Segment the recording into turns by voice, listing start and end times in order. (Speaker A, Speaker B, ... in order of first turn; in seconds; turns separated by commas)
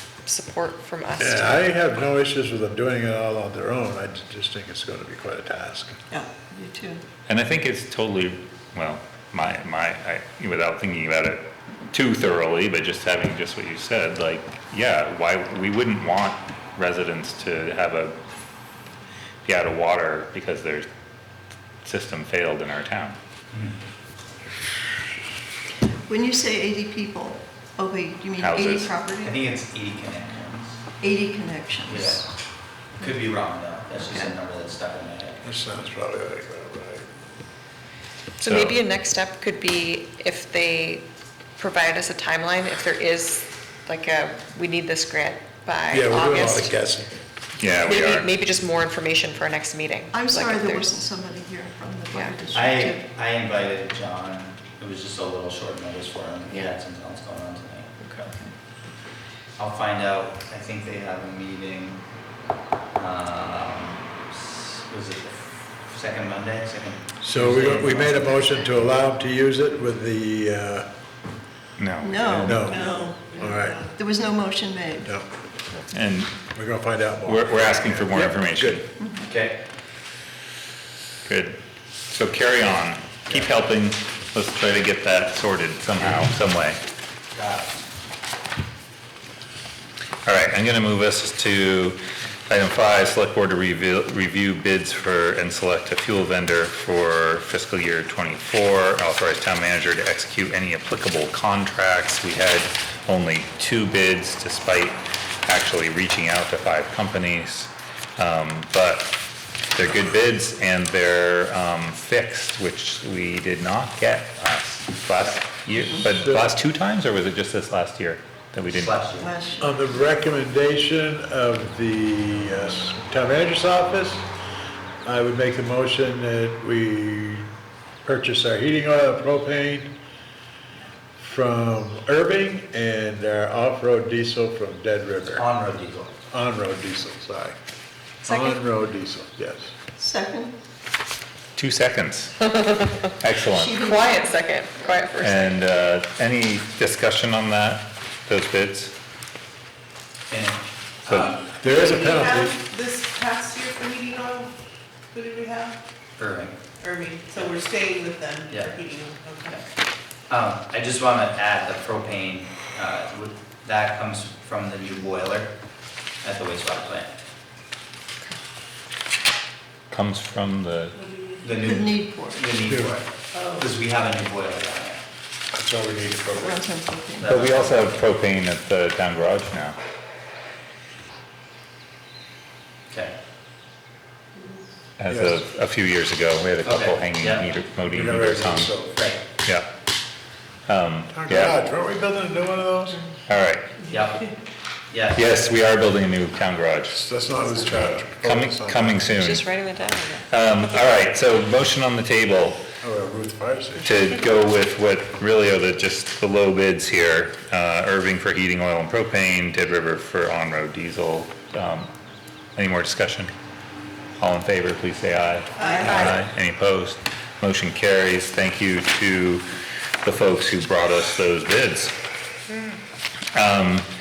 Speaker A: 0.2-1.6, Speaker B: 1.2-6.0, Speaker C: 6.1-7.0, Speaker D: 7.3-18.2, Speaker D: 19.4-20.9, Speaker D: 21.8-23.2, Speaker C: 26.1-29.6, Speaker D: 28.4-28.9, Speaker E: 29.2-30.8, Speaker C: 31.0-32.2, Speaker E: 31.9-32.2, Speaker E: 33.0-35.5, Speaker B: 35.4-37.1, Speaker A: 38.4-41.0, Speaker D: 38.4-38.8, Speaker A: 41.6-46.7, Speaker B: 45.9-47.1, Speaker D: 47.6-48.3, Speaker A: 47.7-51.0, Speaker C: 50.1-53.0, Speaker E: 52.5-57.9, Speaker A: 58.0-58.5, Speaker E: 59.6-62.0, Speaker E: 63.0-68.9, Speaker B: 67.2-70.9, Speaker D: 71.8-72.7, Speaker C: 72.0-73.0, Speaker B: 72.4-73.8, Speaker F: 72.6-74.0, Speaker C: 74.0-75.1, Speaker D: 75.9-76.4, Speaker B: 76.5-78.8, Speaker D: 77.2-78.9, Speaker C: 79.0-79.3, Speaker E: 79.2-79.6, Speaker D: 81.2-81.6, Speaker D: 82.1-86.8, Speaker E: 83.3-83.5, Speaker E: 87.3-87.8, Speaker D: 90.2-92.0, Speaker D: 92.5-109.2, Speaker D: 109.7-119.0, Speaker B: 116.2-116.5, Speaker E: 118.7-119.3, Speaker C: 119.2-119.8, Speaker B: 119.6-124.2, Speaker B: 125.0-127.5, Speaker B: 128.0-129.9, Speaker B: 131.2-135.5, Speaker E: 135.3-136.1, Speaker B: 136.3-137.6, Speaker B: 138.2-139.7, Speaker A: 138.2-138.6, Speaker C: 140.0-140.5, Speaker D: 141.6-142.6, Speaker A: 142.6-143.0, Speaker D: 143.2-143.8, Speaker C: 143.4-144.3, Speaker A: 143.8-145.7, Speaker D: 145.2-148.9, Speaker E: 150.3-151.3, Speaker D: 151.1-151.3, Speaker F: 151.2-154.5, Speaker B: 151.6-152.6, Speaker F: 155.1-155.8, Speaker E: 156.2-156.6, Speaker F: 156.8-159.6, Speaker E: 158.5-158.8, Speaker E: 160.3-165.5, Speaker E: 166.2-167.1, Speaker D: 169.9-170.9, Speaker F: 170.9-171.6, Speaker E: 171.4-175.0, Speaker C: 171.6-172.6, Speaker B: 172.6-173.0, Speaker F: 173.3-173.7, Speaker B: 175.5-176.6, Speaker C: 176.4-177.3, Speaker E: 177.2-178.0, Speaker D: 177.3-179.8, Speaker E: 182.9-183.1, Speaker D: 185.0-188.8, Speaker B: 185.1-185.4, Speaker E: 186.6-187.5, Speaker B: 187.9-189.1, Speaker E: 188.9-189.2, Speaker D: 190.7-191.6, Speaker B: 191.1-193.0, Speaker D: 193.3-193.7, Speaker E: 193.9-194.3, Speaker E: 194.9-195.5, Speaker D: 195.1-197.0, Speaker B: 196.9-199.1, Speaker D: 197.6-199.5, Speaker A: 199.1-200.2, Speaker D: 200.3-202.6, Speaker B: 202.8-204.0, Speaker D: 203.8-211.9, Speaker D: 212.6-213.3, Speaker D: 214.2-219.4, Speaker F: 215.6-216.2, Speaker A: 215.8-216.1, Speaker D: 220.0-221.9, Speaker D: 223.3-223.9